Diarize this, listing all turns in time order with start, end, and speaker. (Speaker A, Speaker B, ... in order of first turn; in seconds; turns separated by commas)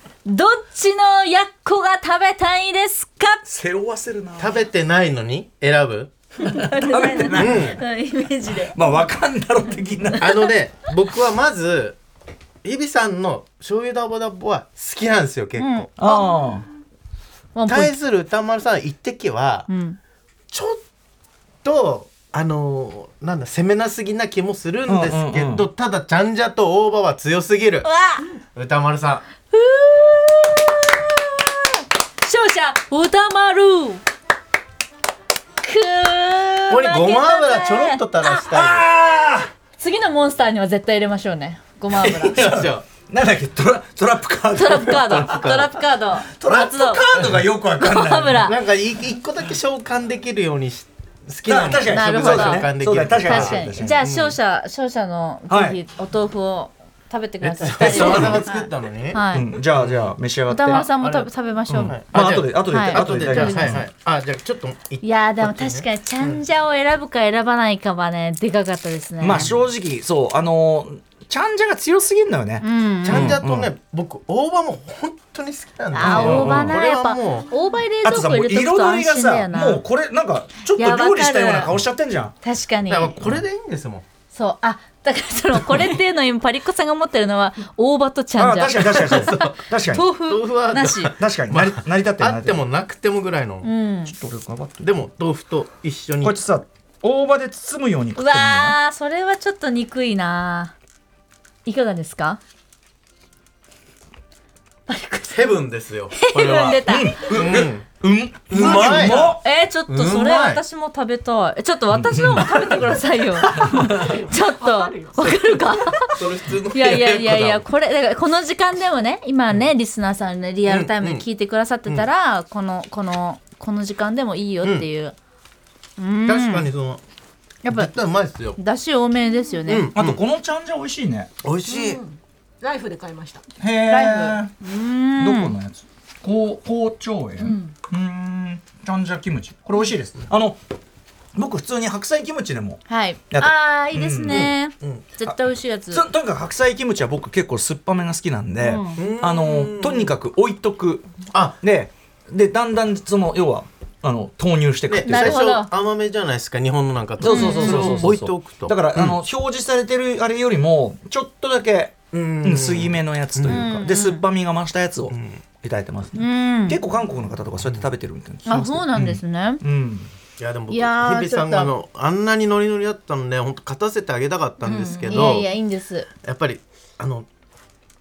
Speaker A: 0.2-3.4, Speaker B: 3.4-4.6, Speaker C: 4.4-6.1, Speaker A: 6.4-8.8, Speaker B: 6.4-7.6, Speaker C: 7.3-7.8, Speaker B: 8.6-10.5, Speaker C: 10.2-12.0, Speaker C: 12.6-15.9, Speaker A: 15.6-16.3, Speaker B: 16.0-16.6, Speaker A: 17.5-17.9, Speaker C: 17.7-19.7, Speaker A: 19.7-20.0, Speaker C: 20.5-20.8, Speaker C: 21.6-27.9, Speaker B: 24.9-25.7, Speaker A: 27.8-28.3, Speaker C: 28.5-29.2, Speaker A: 29.5-31.7, Speaker A: 32.2-34.0, Speaker A: 35.6-38.5, Speaker C: 36.7-38.9, Speaker B: 38.5-39.5, Speaker A: 39.8-42.5, Speaker B: 41.9-45.5, Speaker C: 42.2-42.9, Speaker A: 44.5-47.0, Speaker C: 44.9-45.8, Speaker B: 46.3-48.5, Speaker A: 47.8-48.6, Speaker C: 48.4-54.3, Speaker B: 51.4-54.0, Speaker A: 51.9-52.7, Speaker A: 53.2-59.5, Speaker B: 55.5-55.8, Speaker C: 57.4-66.4, Speaker B: 57.7-58.4, Speaker B: 59.3-60.8, Speaker A: 60.5-62.0, Speaker B: 61.7-63.8, Speaker A: 62.7-63.8, Speaker A: 65.0-69.5, Speaker B: 69.2-73.7, Speaker A: 72.6-73.4, Speaker C: 73.0-77.5, Speaker A: 75.9-79.8, Speaker B: 76.0-76.8, Speaker B: 78.0-82.3, Speaker A: 80.8-81.7, Speaker A: 82.4-83.2, Speaker C: 82.9-84.0, Speaker A: 84.3-91.1, Speaker B: 88.4-90.1, Speaker C: 88.8-89.6, Speaker C: 90.2-93.7, Speaker B: 91.2-92.6, Speaker A: 93.6-94.1, Speaker B: 94.0-94.9, Speaker C: 94.8-96.4, Speaker B: 96.2-98.8, Speaker A: 98.1-100.7, Speaker A: 101.7-102.4, Speaker A: 104.9-107.2, Speaker C: 105.3-107.9, Speaker B: 106.8-109.4, Speaker C: 108.5-110.6, Speaker A: 108.5-125.2, Speaker B: 111.9-114.2, Speaker D: 113.9-115.4, Speaker C: 116.0-117.6, Speaker C: 120.7-121.2, Speaker A: 126.0-126.7, Speaker C: 126.2-127.0, Speaker A: 127.6-127.9, Speaker C: 127.7-128.6, Speaker A: 128.6-129.9, Speaker C: 129.7-130.2, Speaker B: 129.9-131.3, Speaker C: 131.4-132.0, Speaker D: 131.7-133.4, Speaker B: 133.6-134.5, Speaker A: 133.8-135.5, Speaker B: 135.2-140.6, Speaker D: 137.4-137.7, Speaker B: 141.3-142.8, Speaker A: 142.9-146.0, Speaker B: 143.3-144.5, Speaker C: 144.2-145.0, Speaker B: 145.9-151.1, Speaker A: 148.6-149.0, Speaker C: 148.9-150.2, Speaker C: 151.3-151.6, Speaker B: 151.6-155.4, Speaker C: 154.9-159.2, Speaker A: 155.0-155.7, Speaker B: 157.2-170.1, Speaker A: 157.2-158.1, Speaker C: 162.1-163.7, Speaker A: 163.5-164.2, Speaker C: 165.1-165.4, Speaker A: 166.1-166.8, Speaker C: 167.6-167.9, Speaker A: 168.4-169.6, Speaker C: 170.4-175.5, Speaker A: 170.7-171.7, Speaker A: 174.7-176.1, Speaker C: 176.2-177.3